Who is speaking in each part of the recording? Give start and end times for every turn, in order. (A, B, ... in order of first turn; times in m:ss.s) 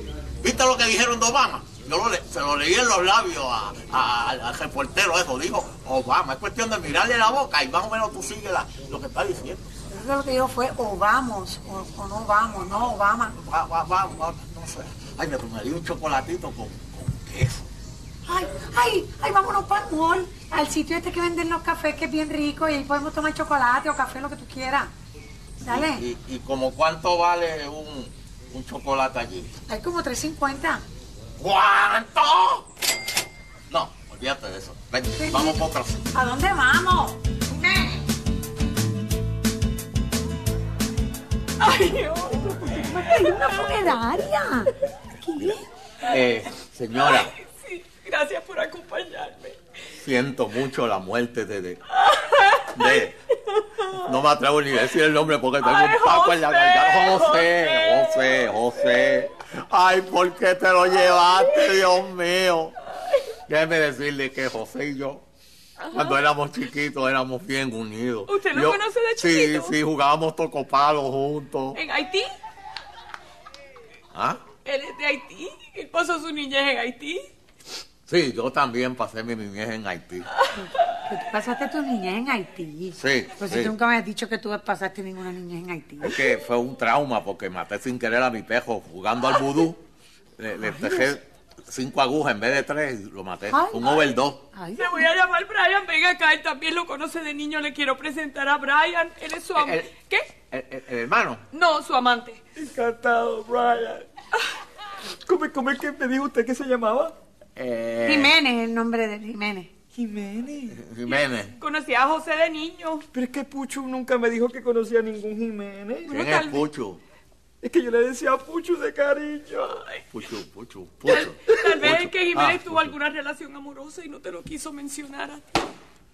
0:00.4-0:09.7 A
0:09.9-0:13.4 B
0:13.4-0:17.7 A
0:18.3-0:24.9 B
0:25.6-0:26.0 B
0:25.7-0:29.5 A
0:29.7-0:30.8 B
0:31.4-0:32.6 A
0:33.7-0:36.1 A
0:35.2-0:38.1 B
0:41.6-0:43.5 C
0:42.6-0:45.7 B
0:45.4-0:47.3 A
0:47.0-0:49.6 C
0:50.0-0:51.8 A
0:51.9-0:53.9 C
0:52.7-0:53.2 A
0:53.8-1:02.8 A
0:55.6-0:59.2 C
1:01.0-1:01.8 C
1:03.5-1:05.2 A
1:05.9-1:06.2 C
1:05.9-1:11.8 A
1:08.3-1:09.8 C
1:11.8-1:12.4 C
1:14.1-1:14.4 A
1:14.6-1:17.3 C
1:18.1-1:20.3 A
1:20.6-1:26.2 B
1:23.0-1:23.7 A
1:26.0-1:29.8 A
1:30.4-1:34.4 A
1:30.6-1:31.2 B
1:33.5-1:35.1 B
1:34.8-1:40.3 C
1:39.6-1:39.9 A
1:40.5-1:41.4 A
1:41.5-1:42.4 C
1:42.6-1:44.1 D
1:45.2-1:47.2 D
1:47.6-1:48.3 A
1:48.0-1:49.7 B
1:50.0-1:50.8 D
1:50.7-1:51.6 A
1:51.1-1:53.0 C
1:53.1-1:56.1 D
1:56.1-1:56.7 C
1:56.1-1:57.0 A
1:57.6-1:59.8 D
2:00.1-2:03.0 A
2:01.1-2:05.4 C